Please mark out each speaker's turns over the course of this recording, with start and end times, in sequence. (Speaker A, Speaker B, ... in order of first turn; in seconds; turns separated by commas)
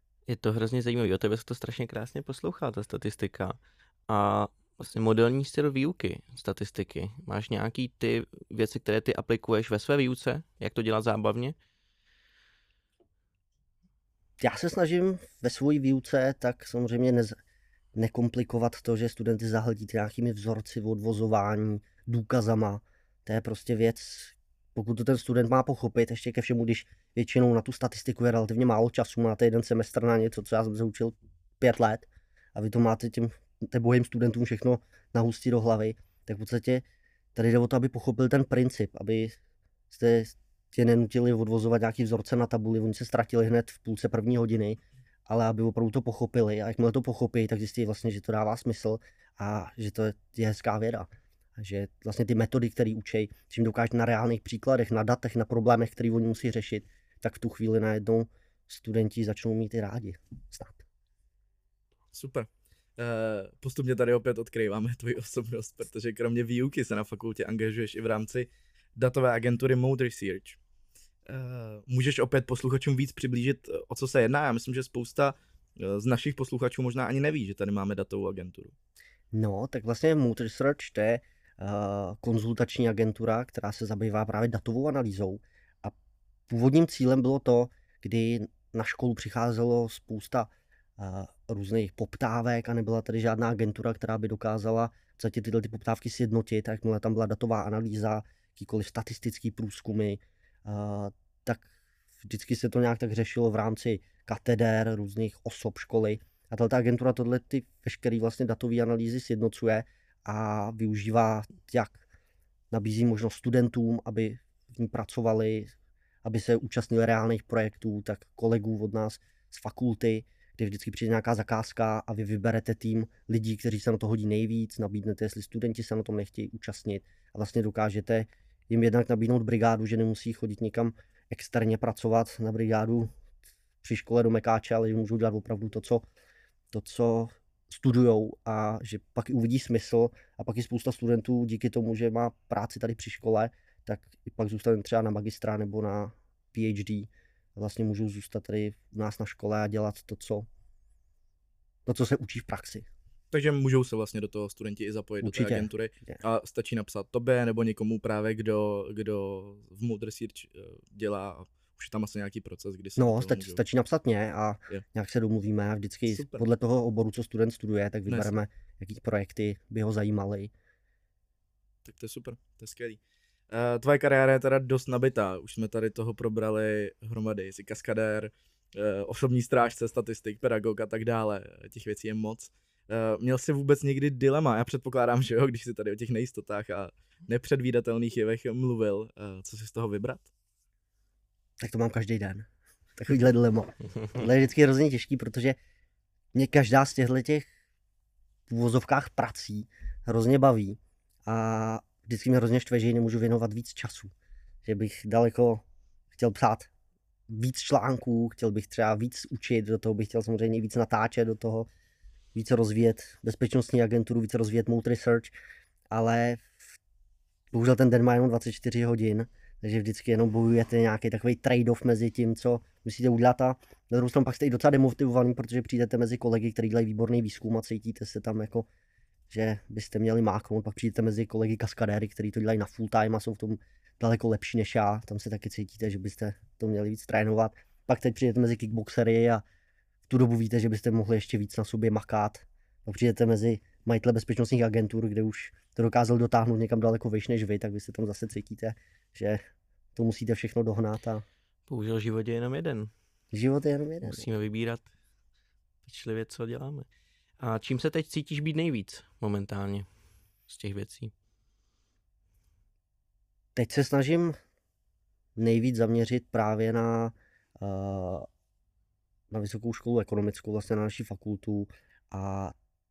Speaker A: 0.3-11.6, Speaker B: 14.4-17.3, Speaker B: 17.9-36.8, Speaker B: 37.3-39.4, Speaker B: 39.9-60.8, Speaker C: 62.1-70.6, Speaker C: 71.3-78.7, Speaker B: 79.3-85.9, Speaker B: 86.5-101.7, Speaker B: 102.2-112.0, Speaker B: 112.7-115.7, Speaker B: 116.2-133.1, Speaker B: 133.8-136.0, Speaker B: 136.7-150.5, Speaker B: 151.8-152.9, Speaker C: 153.3-163.6, Speaker B: 155.2-156.2, Speaker B: 163.0-170.5, Speaker C: 166.1-166.4, Speaker C: 171.8-190.3, Speaker B: 191.6-195.6, Speaker B: 196.3-197.5, Speaker B: 198.5-204.1, Speaker B: 204.6-205.6, Speaker B: 206.1-206.7, Speaker B: 207.3-211.7, Speaker B: 212.3-215.3, Speaker B: 215.9-216.8, Speaker B: 217.5-228.7, Speaker B: 229.3-239.4, Speaker B: 240.1-249.4, Speaker B: 249.9-251.2, Speaker A: 251.7-252.9, Speaker B: 253.3-254.3, Speaker A: 254.0-254.9, Speaker A: 255.8-256.9, Speaker A: 257.4-259.9, Speaker A: 260.5-261.1, Speaker B: 263.6-264.3, Speaker B: 265.4-268.3, Speaker B: 269.3-272.5